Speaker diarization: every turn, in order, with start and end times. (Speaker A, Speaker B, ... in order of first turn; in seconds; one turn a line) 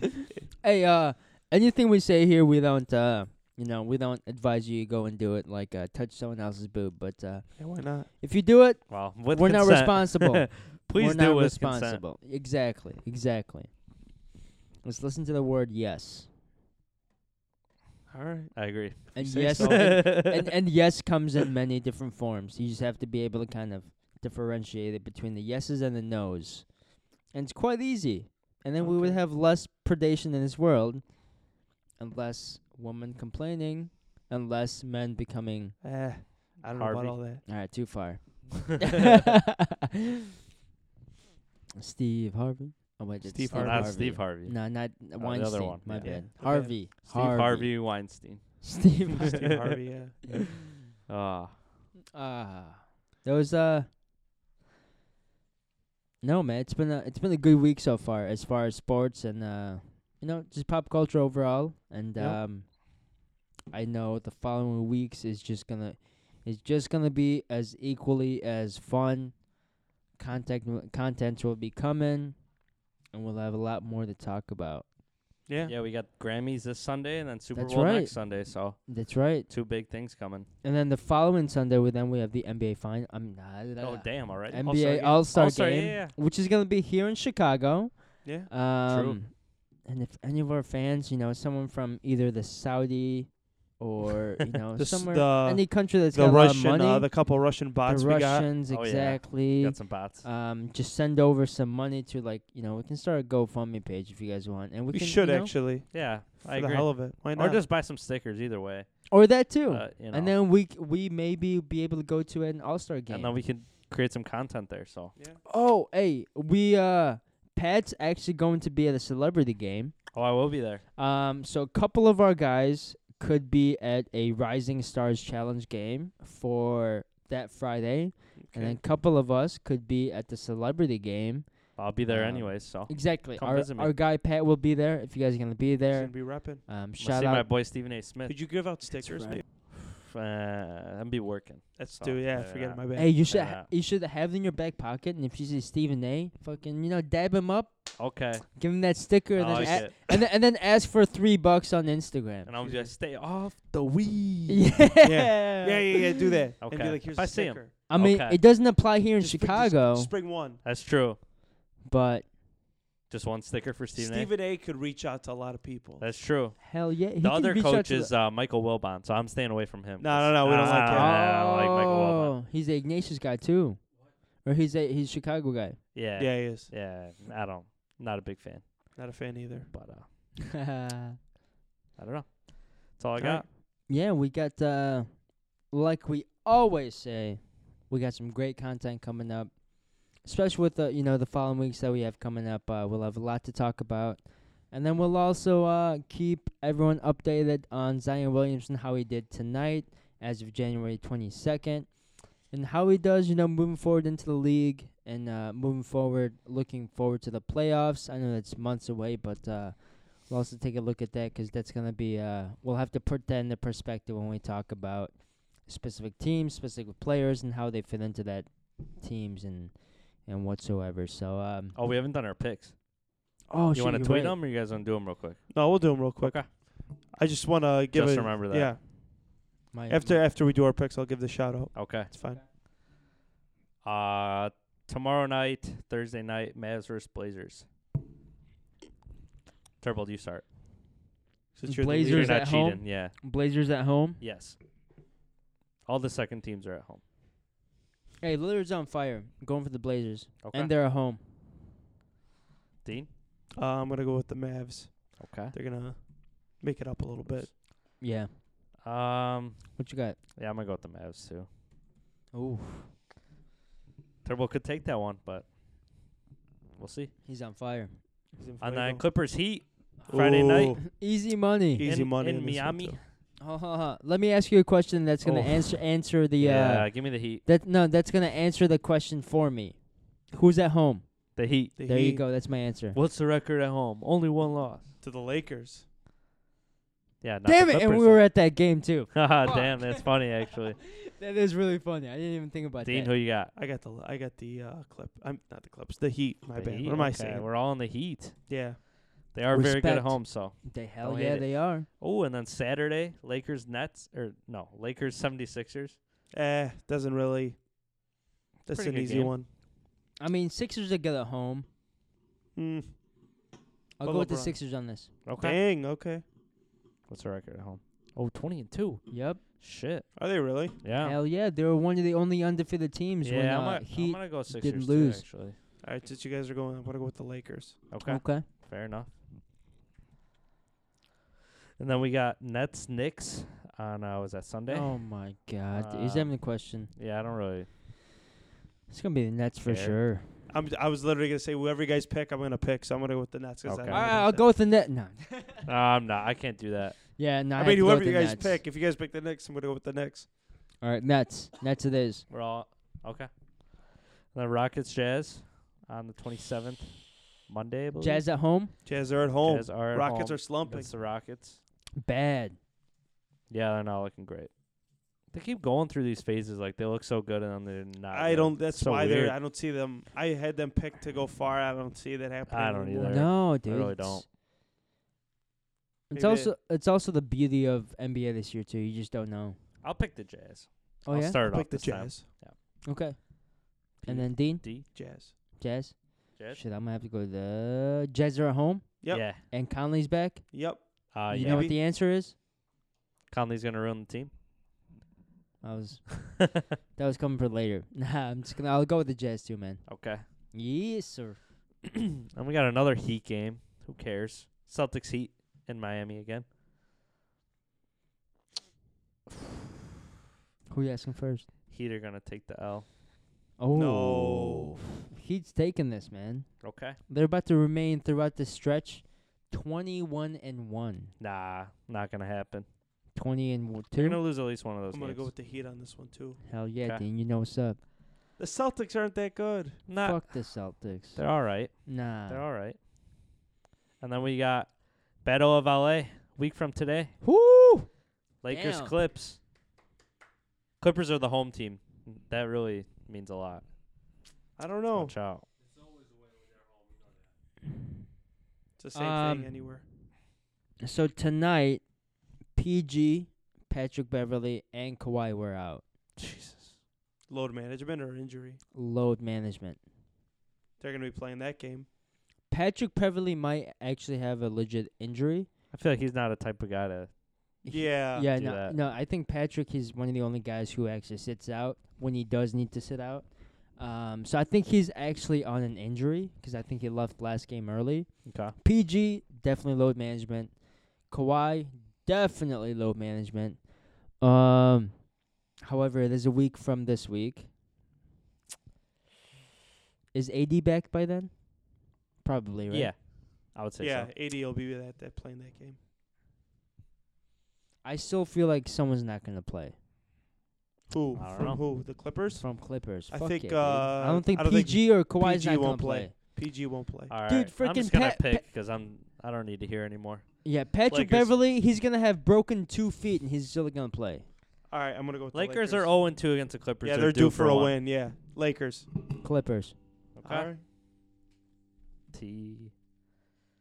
Speaker A: 0.6-14.0
Speaker B: 7.6-8.1
Speaker C: 8.9-12.0
Speaker A: 14.8-16.3
Speaker B: 18.1-20.0
Speaker C: 18.6-20.5
Speaker A: 19.1-35.8
Speaker B: 28.8-29.2
Speaker B: 35.8-37.4
Speaker C: 36.7-37.4
Speaker A: 37.5-39.7
Speaker A: 41.8-49.5
Speaker B: 43.2-44.1
Speaker C: 43.5-49.8
Speaker B: 46.0-46.8
Speaker B: 49.1-50.5
Speaker C: 51.0-51.6
Speaker A: 52.1-53.9
Speaker A: 56.2-63.2
Speaker A: 63.7-69.5
Speaker A: 70.2-72.6
Speaker A: 73.1-74.9
Speaker B: 75.5-75.7
Speaker C: 75.7-80.5
Speaker A: 77.5-79.9
Speaker A: 80.6-97.3
Speaker C: 83.8-86.2
Speaker B: 88.2-88.5
Speaker C: 88.9-89.2
Speaker B: 94.8-98.5
Speaker A: 97.8-105.5
Speaker C: 98.7-100.3
Speaker B: 104.9-107.6
Speaker C: 105.9-110.3
Speaker A: 109.1-113.4
Speaker C: 113.1-115.1
Speaker B: 115.2-115.4
Speaker A: 115.5-120.2
Speaker C: 120.1-120.8
Speaker A: 121.0-137.5
Speaker B: 128.4-128.8
Speaker C: 131.8-133.9
Speaker B: 135.9-136.6
Speaker C: 137.0-138.9
Speaker B: 138.2-139.4
Speaker A: 139.0-139.4
Speaker C: 139.7-143.7
Speaker B: 141.8-143.2
Speaker A: 142.9-152.5
Speaker C: 148.0-149.9
Speaker B: 149.5-149.9
Speaker C: 152.4-154.8
Speaker B: 152.6-152.9
Speaker A: 154.5-156.2
Speaker B: 155.0-157.7
Speaker C: 156.6-158.4
Speaker A: 157.9-160.1
Speaker B: 159.2-160.6
Speaker C: 160.6-161.2
Speaker A: 161.8-162.3
Speaker C: 163.1-164.3
Speaker B: 164.0-166.1
Speaker C: 166.0-172.3
Speaker A: 166.6-168.1
Speaker B: 170.0-171.2
Speaker A: 170.9-175.8
Speaker C: 175.9-179.2
Speaker B: 176.2-176.7
Speaker B: 179.0-179.7
Speaker C: 179.7-180.1
Speaker A: 180.5-181.2
Speaker C: 182.0-183.5
Speaker B: 183.2-183.5
Speaker A: 183.8-221.8
Speaker C: 221.7-222.8
Speaker A: 223.5-224.4
Speaker C: 223.7-226.5
Speaker B: 225.5-232.4
Speaker C: 227.9-228.8
Speaker A: 229.7-230.2
Speaker C: 231.7-232.1
Speaker C: 233.8-237.7
Speaker C: 239.8-240.5
Speaker B: 241.6-242.4
Speaker A: 241.6-244.2
Speaker C: 242.0-243.2
Speaker C: 244.2-244.6
Speaker C: 245.9-247.0
Speaker A: 248.2-251.2
Speaker C: 250.4-250.7
Speaker C: 252.8-253.1
Speaker B: 253.6-257.6
Speaker C: 255.2-255.6
Speaker A: 258.0-258.3
Speaker C: 258.8-261.5
Speaker A: 259.8-260.2
Speaker A: 262.3-262.9
Speaker C: 264.2-265.5
Speaker C: 266.8-267.1
Speaker A: 267.2-268.0
Speaker B: 268.3-269.1
Speaker C: 268.6-270.8
Speaker B: 270.1-270.9
Speaker A: 270.8-271.9
Speaker B: 271.7-273.0
Speaker C: 271.8-273.1
Speaker A: 273.4-283.0
Speaker C: 275.2-277.4
Speaker C: 281.4-281.8
Speaker B: 281.8-282.2
Speaker C: 282.9-284.9
Speaker B: 285.0-285.9
Speaker C: 287.2-288.6
Speaker A: 287.4-290.0
Speaker C: 289.1-290.8
Speaker A: 290.8-293.2
Speaker C: 292.8-293.5
Speaker B: 293.5-297.6
Speaker C: 296.6-298.7
Speaker B: 298.5-298.8
Speaker C: 299.3-306.0
Speaker A: 299.5-301.9
Speaker B: 306.3-307.6
Speaker B: 308.7-309.5
Speaker C: 308.7-309.4
Speaker A: 310.2-311.7
Speaker B: 312.6-313.0
Speaker A: 314.0-315.1
Speaker B: 314.0-314.6
Speaker C: 315.3-315.6
Speaker B: 315.4-316.2
Speaker C: 317.1-321.2
Speaker A: 319.1-319.4
Speaker B: 320.2-320.8
Speaker A: 321.0-325.2
Speaker C: 323.2-325.6
Speaker B: 325.8-327.8
Speaker C: 327.9-329.1
Speaker A: 328.1-328.5
Speaker C: 331.8-335.2
Speaker A: 334.7-336.9
Speaker C: 335.7-337.7
Speaker A: 338.9-340.4
Speaker C: 339.6-340.0
Speaker B: 340.5-344.5
Speaker C: 343.6-344.1
Speaker A: 343.9-345.6
Speaker C: 345.6-347.0
Speaker A: 347.2-348.6
Speaker B: 347.6-350.3
Speaker A: 350.8-352.3
Speaker C: 352.3-358.8
Speaker A: 358.0-358.7
Speaker B: 358.9-360.9
Speaker C: 359.4-361.6
Speaker A: 362.0-362.6
Speaker C: 363.5-364.5
Speaker C: 365.3-369.4
Speaker B: 368.1-373.3
Speaker C: 372.5-374.2
Speaker A: 373.0-374.2
Speaker A: 376.1-379.6
Speaker B: 376.1-376.5
Speaker C: 379.8-382.6
Speaker A: 381.1-381.4
Speaker B: 381.4-382.3
Speaker A: 382.8-385.0
Speaker C: 384.0-384.9
Speaker B: 384.9-385.4
Speaker A: 385.6-390.6
Speaker B: 389.0-389.3
Speaker C: 389.1-389.4
Speaker B: 390.5-391.8
Speaker C: 391.1-391.7
Speaker A: 391.3-392.4
Speaker C: 393.3-394.3
Speaker A: 395.6-401.4
Speaker C: 399.9-400.2
Speaker C: 402.3-406.5
Speaker A: 410.7-411.5
Speaker C: 411.7-412.9
Speaker A: 413.6-421.1
Speaker B: 413.7-414.8
Speaker C: 416.6-417.0
Speaker C: 421.2-422.7
Speaker A: 423.1-424.2
Speaker C: 424.0-425.3
Speaker B: 424.9-426.4
Speaker A: 426.4-427.8
Speaker B: 428.4-429.8
Speaker C: 429.9-432.8
Speaker A: 430.0-432.4
Speaker C: 434.0-437.1
Speaker A: 437.2-437.9
Speaker C: 438.4-439.4
Speaker A: 438.5-438.9
Speaker C: 440.8-443.6
Speaker B: 444.6-445.1
Speaker C: 444.9-445.4
Speaker B: 448.8-449.8
Speaker A: 448.9-449.6
Speaker A: 450.8-451.9
Speaker A: 452.5-455.8
Speaker C: 456.2-456.8
Speaker B: 457.3-458.6
Speaker A: 458.7-459.8
Speaker B: 460.8-461.9
Speaker A: 462.5-465.5
Speaker C: 465.7-467.1
Speaker A: 467.6-487.5
Speaker B: 467.7-468.3
Speaker C: 468.1-468.8
Speaker C: 478.2-478.5
Speaker A: 490.1-492.9
Speaker C: 492.7-494.1
Speaker B: 493.8-495.8
Speaker A: 497.8-499.8
Speaker B: 500.9-507.1
Speaker C: 501.2-501.6
Speaker A: 502.3-506.1
Speaker C: 507.1-511.4
Speaker A: 507.3-508.4
Speaker A: 510.4-514.3
Speaker B: 514.7-516.1
Speaker C: 515.3-517.8
Speaker B: 516.8-518.9
Speaker A: 519.2-519.8
Speaker C: 520.2-520.5
Speaker B: 520.2-520.6
Speaker C: 522.1-522.7